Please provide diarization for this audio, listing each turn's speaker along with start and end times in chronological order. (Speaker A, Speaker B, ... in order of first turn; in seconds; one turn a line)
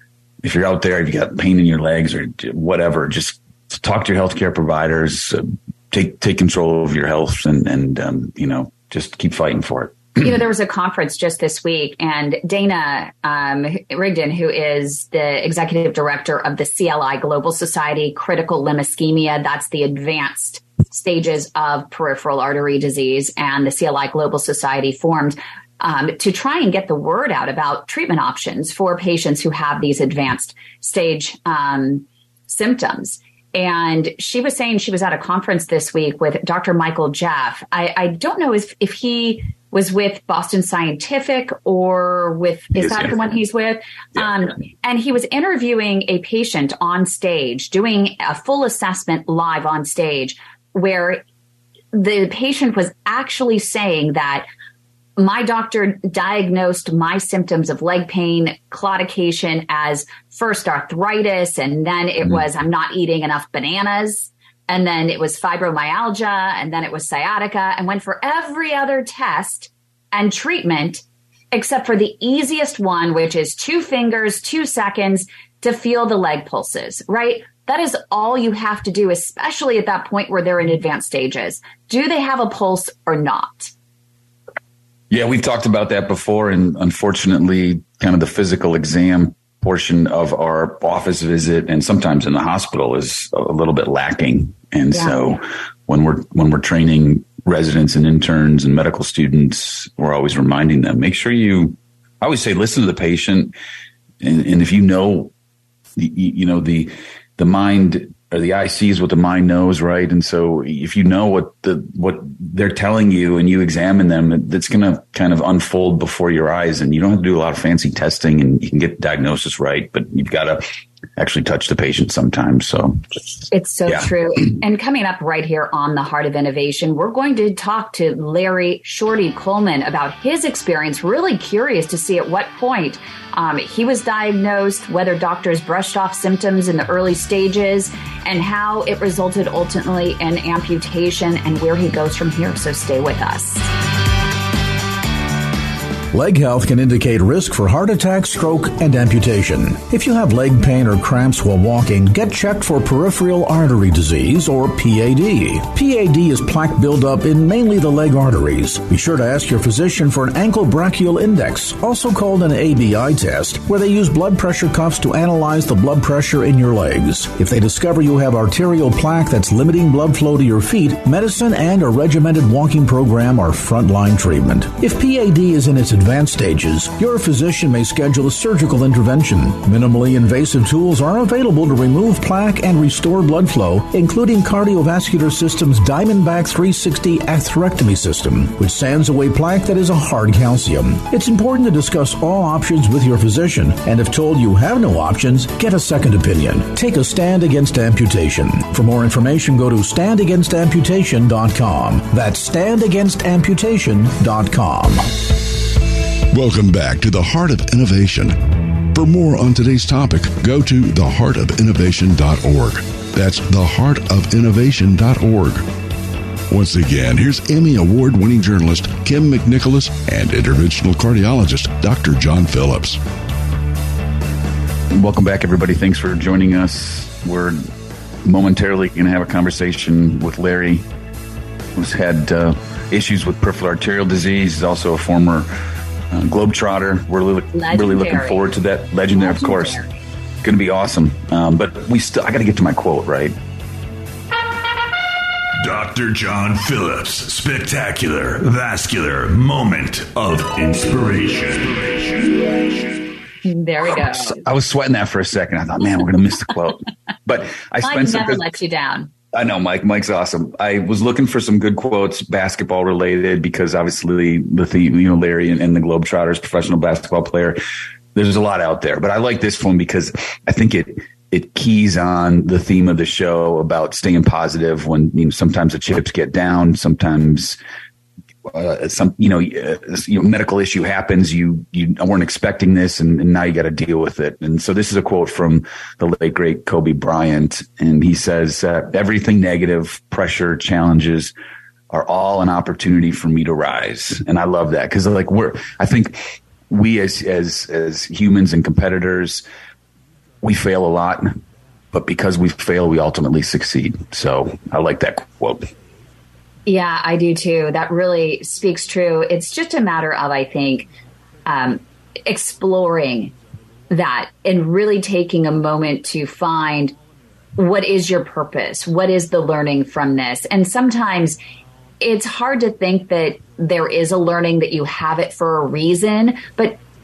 Speaker A: 0.4-10.3
Speaker B: 10.2-51.2
Speaker A: 42.8-43.2
Speaker B: 51.9-54.5
Speaker B: 55.2-83.7
Speaker A: 85.1-103.5
Speaker A: 104.2-105.3
Speaker A: 106.0-120.6
Speaker A: 121.2-123.2
Speaker B: 123.5-143.7
Speaker A: 123.8-124.1
Speaker C: 146.1-205.2
Speaker D: 206.3-208.4
Speaker D: 208.9-215.7
Speaker D: 216.5-223.0
Speaker A: 224.9-227.6
Speaker A: 228.2-230.8
Speaker A: 231.7-235.5
Speaker A: 236.1-239.8
Speaker B: 237.5-238.5
Speaker B: 239.1-239.9
Speaker A: 240.4-243.3
Speaker E: 245.6-252.8
Speaker B: 253.4-254.4
Speaker A: 254.3-258.4
Speaker B: 257.8-259.1
Speaker A: 259.3-267.6
Speaker A: 268.1-277.6
Speaker A: 278.5-291.3
Speaker A: 291.9-299.4
Speaker A: 300.4-301.4
Speaker A: 301.9-305.7
Speaker B: 306.6-310.9
Speaker B: 311.4-313.3
Speaker B: 313.9-316.9
Speaker B: 317.6-321.4
Speaker B: 322.0-326.8